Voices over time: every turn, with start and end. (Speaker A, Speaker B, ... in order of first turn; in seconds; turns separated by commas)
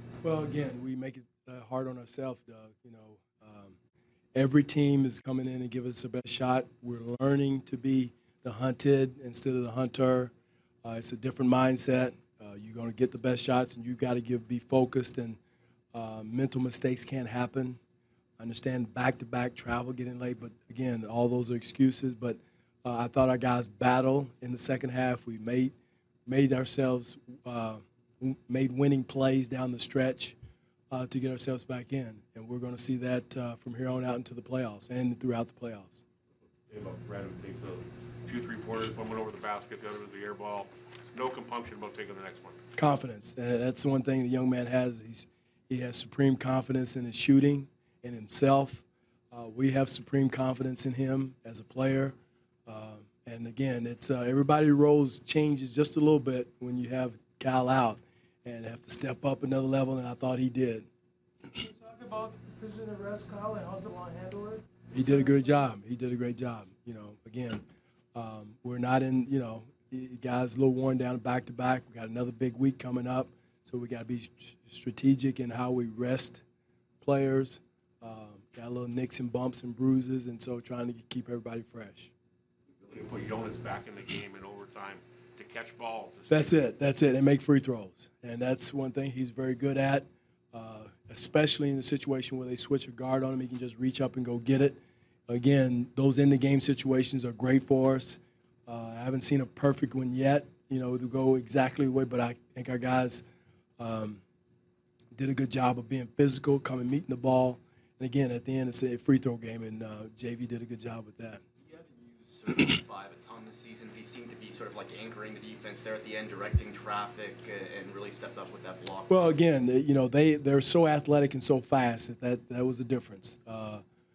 Speaker A: 0.2-3.8, Speaker A: 4.3-10.3, Speaker A: 10.8-15.4, Speaker A: 15.9-17.8, Speaker A: 18.4-25.7, Speaker A: 26.3-30.4, Speaker A: 30.9-36.0, Speaker B: 36.6-42.6, Speaker A: 42.8-52.1, Speaker A: 52.7-60.9, Speaker C: 61.6-65.5, Speaker A: 64.9-67.6, Speaker A: 68.1-76.4, Speaker A: 77.0-82.1, Speaker B: 82.9-86.5, Speaker A: 86.3-103.2, Speaker A: 103.8-104.2, Speaker A: 105.1-111.4, Speaker D: 111.6-119.3, Speaker A: 119.1-123.8